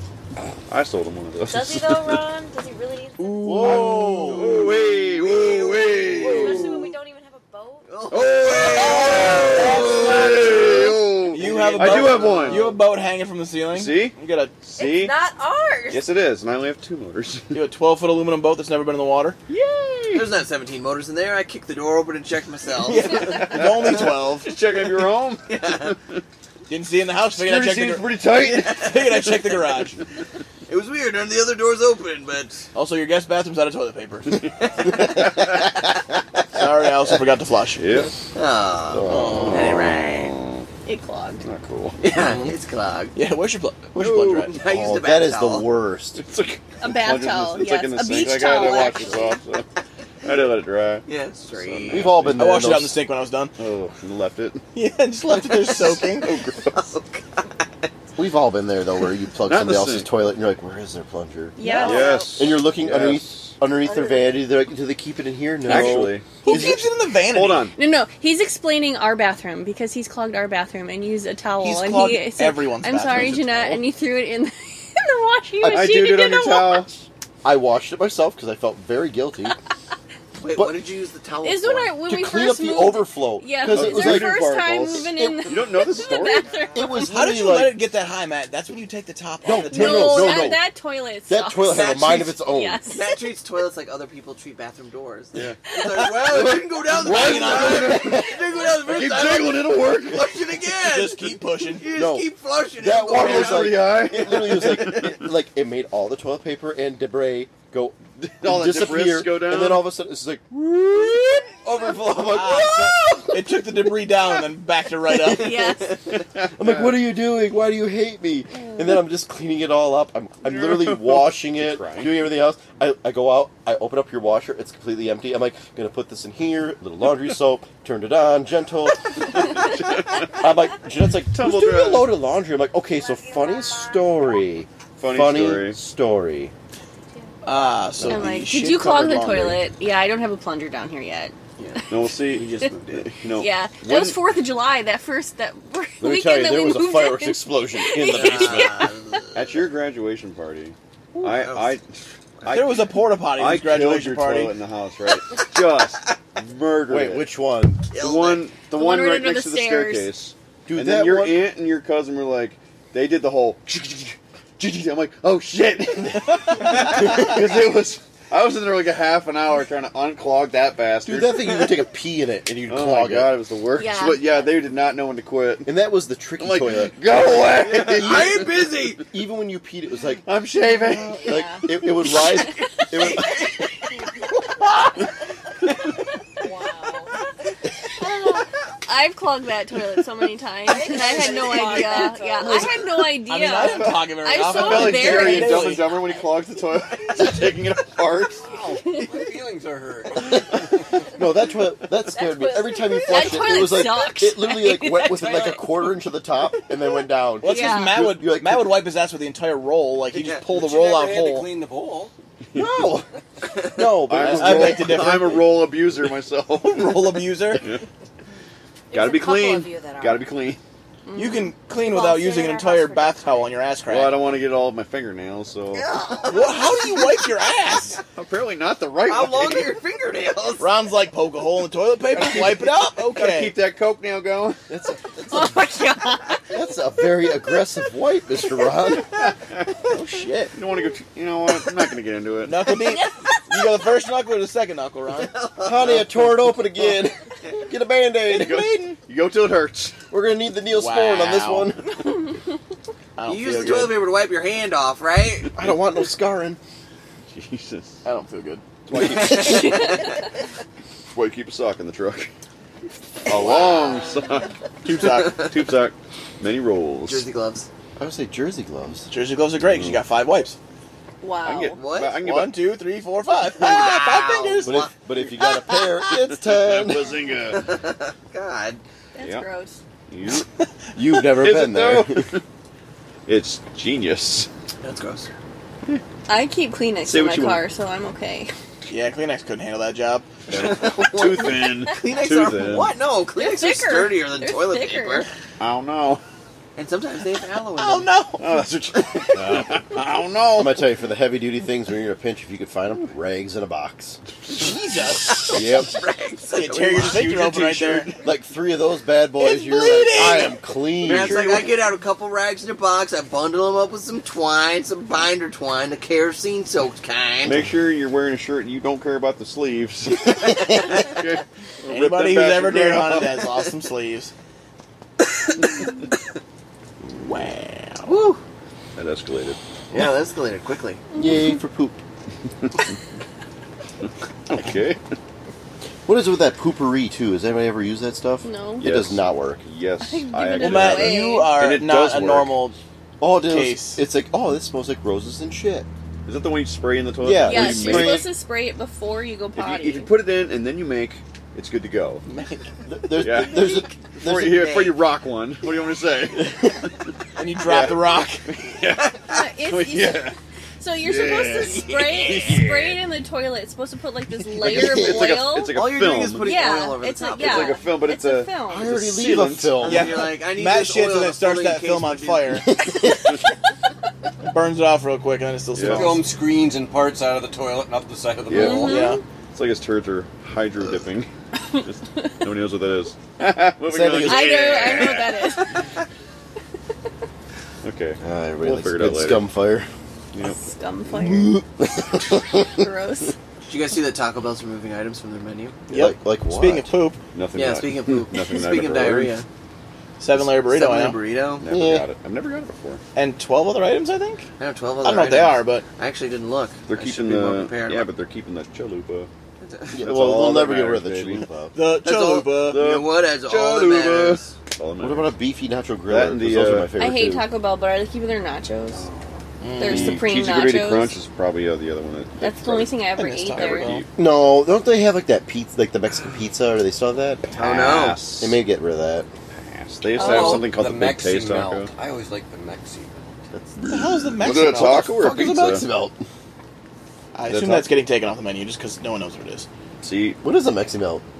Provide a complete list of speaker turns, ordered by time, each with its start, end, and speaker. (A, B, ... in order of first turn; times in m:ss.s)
0:00.6-0:02.2 A
0:01.4-0:03.7 B
0:03.2-0:04.6 C
0:03.4-0:04.7 D
0:03.7-0:06.9 A
0:04.6-0:11.0 B
0:04.8-0:06.8 E
0:07.9-0:12.8 E
0:08.1-0:12.8 A
0:11.3-0:14.6 C
0:13.7-0:15.2 A
0:14.7-0:16.1 B
0:15.9-0:17.6 A
0:17.5-0:19.4 C
0:19.5-0:20.3 A
0:20.1-0:23.7 E
0:22.8-0:24.6 C
0:23.2-0:26.2 A
0:25.5-0:26.0 E
0:26.7-0:30.0 C
0:27.3-0:29.4 A
0:28.4-0:29.3 E
0:30.7-0:32.7 E
0:32.8-0:34.4 C
0:34.4-0:35.7 A
0:34.8-0:35.6 E
0:36.5-0:37.9 C
0:37.8-0:38.3 A
0:38.3-0:40.3 E
0:38.9-0:39.6 D
0:39.0-0:40.7 A
0:39.1-0:39.8 C
0:40.9-0:41.4 F
0:41.4-0:42.0 A
0:42.0-0:43.2 E
0:42.1-0:42.6 C
0:43.1-0:44.6 C
0:44.0-0:44.5 A
0:44.5-0:45.7 E
0:44.6-0:46.2 D
0:46.2-0:49.7 A
0:46.8-0:49.4 F
0:50.2-0:52.6 A
0:51.1-0:52.3 E
0:51.9-0:53.0 D
0:52.4-0:53.6 C
0:53.6-0:54.6 A
0:54.7-0:56.4 C
0:55.5-0:57.9 E
0:55.8-0:56.8 A
0:58.2-1:06.8 D
0:59.4-1:00.1 A
1:01.6-1:02.4 F
1:01.8-1:03.6 A
1:05.6-1:06.4 A
1:05.7-1:07.7 C
1:06.5-1:06.8 F
1:07.2-1:07.8 A
1:07.8-1:17.0 F
1:11.6-1:13.4 C
1:13.2-1:13.8 A
1:15.6-1:16.0 D
1:15.6-1:17.0 A
1:17.4-1:19.6 D
1:20.4-1:22.0 E
1:21.4-1:27.1 F
1:22.1-1:24.4 D
1:23.7-1:26.6 A
1:25.1-1:25.7 D
1:26.7-1:27.8 D
1:27.0-1:30.3 C
1:29.4-1:30.6 D
1:29.5-1:30.5 E
1:29.7-1:33.2 F
1:31.3-1:32.8 D
1:31.6-1:45.2 E
1:35.3-1:40.5 A
1:37.0-1:38.2 C
1:37.7-1:38.3 D
1:40.8-1:41.9 C
1:41.9-1:53.7 D
1:43.0-1:45.2 A
1:48.2-1:49.9 A
1:52.0-1:52.2 A
1:52.3-1:55.8 C
1:55.2-1:56.0 F
1:56.1-1:57.0 A
1:56.6-2:09.6 D
2:00.4-2:02.3 A
2:09.3-2:10.4 A
2:10.3-2:16.5 D
2:11.3-2:12.2 A
2:12.9-2:14.6 B
2:15.0-2:15.8 A
2:17.1-2:17.8 B
2:17.4-2:19.6 C
2:18.0-2:18.4 D
2:18.0-2:21.8 F
2:21.9-2:24.2 A
2:23.4-2:28.9 F
2:26.0-2:28.9 D
2:28.1-2:29.7 E
2:29.3-2:37.3 A
2:31.2-2:31.8 E
2:32.5-2:34.6 C
2:36.9-2:37.8 D
2:37.9-2:38.5 E
2:37.9-2:51.6 A
2:38.7-2:40.1 F
2:40.7-2:41.4 D
2:51.0-2:53.4 D
2:52.7-2:55.7 A
2:53.8-2:54.2 F
2:55.6-3:00.2 D
2:56.4-2:58.7 A
2:57.6-2:59.0 E
3:00.2-3:01.3 A
3:01.2-3:03.5 D
3:01.2-3:01.6 F
3:06.4-3:07.2 B
3:07.9-3:15.8 F
3:10.6-3:12.9 B
3:12.4-3:16.0 C
3:13.6-3:18.4 A
3:18.4-3:21.1 G
3:21.1-3:28.8 D
3:22.1-3:25.7 F
3:22.5-3:23.2 B
3:25.2-3:25.5 G
3:27.4-3:31.5 C
3:27.4-3:28.0 F
3:30.2-3:32.1 G
3:32.5-3:33.0 A
3:32.5-3:33.1 D
3:33.7-3:35.2 D
3:33.8-3:35.6 C
3:34.0-3:37.8 A
3:36.6-3:37.6 C
3:38.9-3:40.3 B
3:38.9-3:40.6 A
3:41.1-3:41.5 F
3:41.2-3:44.2 C
3:41.8-3:43.6 B
3:43.9-3:45.9 A
3:45.7-3:47.0 E
3:46.2-3:48.0 C
3:48.0-3:49.8 A
3:49.1-3:50.7 E
3:50.6-3:53.6 C
3:52.1-3:54.6 A
3:54.7-3:55.6 D
3:55.3-3:56.4 F
3:56.5-3:59.1 D
3:59.1-3:59.8 A
3:59.9-4:00.5 D
4:00.5-4:02.7 A
4:02.4-4:05.3 C
4:02.8-4:03.7 F
4:05.1-4:06.1 E
4:05.6-4:08.9 D
4:08.3-4:10.0 A
4:08.6-4:08.9 C
4:10.1-4:11.9 D
4:10.7-4:11.7 C
4:13.2-4:14.1 C
4:13.3-4:15.5 E
4:15.6-4:16.6 D
4:17.3-4:18.0 A
4:18.0-4:18.6 C
4:18.9-4:20.1 A
4:18.9-4:20.2 E
4:21.1-4:22.3 A
4:23.2-4:27.3 A
4:23.3-4:23.9 E
4:23.6-4:24.0 B
4:24.8-4:25.5 C
4:27.1-4:27.7 E
4:28.0-4:29.1 D
4:29.1-4:30.6 C
4:29.6-4:30.0 A
4:31.2-4:31.8 F
4:31.4-4:32.6 A
4:31.8-4:32.2 E
4:32.2-4:34.8 C
4:33.6-4:34.9 E
4:34.6-4:37.1 D
4:36.1-4:37.8 A
4:37.5-4:38.8 E
4:39.1-4:39.8 F
4:39.2-4:39.5 A
4:40.1-4:40.5 A
4:41.0-4:42.3 D
4:41.3-4:42.4 A
4:43.3-4:44.5 A
4:44.8-4:45.3 E
4:46.3-4:48.5 F
4:47.0-4:47.6 A
4:48.9-4:50.3 C
4:50.5-4:53.0 A
4:50.5-4:55.3 E
4:53.4-4:55.3 F
4:55.6-4:56.2 A
4:56.8-4:58.1 E
4:57.8-4:58.6 C
4:58.4-5:00.8 A
4:59.4-4:59.7 D
5:00.5-5:04.2 D
5:04.5-5:05.8 C
5:05.3-5:07.4 E
5:05.5-5:05.9 D
5:06.5-5:08.2 C
5:07.0-5:08.2 A
5:08.2-5:11.6 D
5:09.4-5:10.6 C
5:11.0-5:17.6 E
5:11.1-5:11.6 A
5:17.4-5:23.4 A
5:21.9-5:24.3 C
5:27.1-5:28.2 C
5:28.1-5:28.4 E
5:29.0-5:29.6 A
5:29.9-5:31.0 E
5:31.1-5:31.5 F
5:31.2-5:32.0 D
5:32.6-5:32.9 A
5:34.5-5:35.0 A
5:36.1-5:39.6 D
5:38.4-5:38.8 F
5:38.8-5:42.7 A
5:40.0-5:41.6 F
5:40.6-5:42.8 C
5:43.2-5:45.9 D
5:43.4-5:44.0 C
5:46.3-5:48.3 A
5:47.2-5:48.3 D
5:47.4-5:50.1 F
5:49.6-5:52.2 A
5:52.3-5:52.8 C
5:52.9-5:54.7 D
5:53.2-6:00.4 A
5:54.3-5:55.0 E
5:57.4-5:58.4 C
5:59.0-5:59.4 E
5:59.3-6:05.8 F
6:01.0-6:03.0 A
6:01.6-6:02.6 E
6:04.6-6:05.4 D
6:04.6-6:06.6 A
6:05.7-6:07.8 E
6:06.4-6:08.9 F
6:07.4-6:09.9 A
6:08.7-6:10.2 D
6:09.8-6:12.6 E
6:09.8-6:12.7 C
6:12.7-6:13.4 D
6:14.4-6:16.3 C
6:15.7-6:16.2 A
6:15.9-6:19.1 G
6:18.5-6:25.5 A
6:18.5-6:19.2 F
6:18.8-6:19.2 C
6:23.9-6:25.0 D
6:24.2-6:25.8 F
6:27.8-6:29.5 A
6:28.2-6:29.9 D
6:30.3-6:30.6 A
6:30.4-6:31.6 F
6:31.1-6:32.8 D
6:32.3-6:33.4 F
6:33.7-6:35.8 E
6:35.9-6:37.2 C
6:35.9-6:36.9 D
6:37.3-6:39.3 A
6:37.6-6:39.5 E
6:40.2-6:41.2 C
6:40.4-6:41.6 E
6:41.6-6:43.0 A
6:41.7-6:42.1 D
6:43.2-6:44.5 C
6:44.6-6:48.1 E
6:45.0-6:45.8 C
6:46.9-6:49.3 A
6:49.6-6:50.0 E
6:49.9-6:51.8 D
6:50.0-6:51.5 A
6:51.7-6:52.9 C
6:52.0-6:54.5 E
6:52.6-6:55.4 A
6:55.0-6:57.5 D
6:56.1-6:56.9 A
6:57.0-6:59.1 F
6:58.9-7:03.0 A
6:59.6-7:00.2 C
6:59.8-7:01.2 F
7:02.4-7:04.0 F
7:03.2-7:04.0 C
7:03.5-7:04.1 A
7:04.2-7:07.4 D
7:07.4-7:08.6 A
7:07.5-7:08.2 E
7:08.4-7:09.3 D
7:09.5-7:11.9 A
7:10.2-7:13.4 G
7:10.2-7:10.7 F
7:13.5-7:13.9 D
7:13.8-7:15.9 A
7:13.8-7:15.2 C
7:15.1-7:16.2 D
7:17.4-7:19.7 C
7:17.5-7:17.9 A
7:20.0-7:20.4 A
7:20.4-7:21.2 D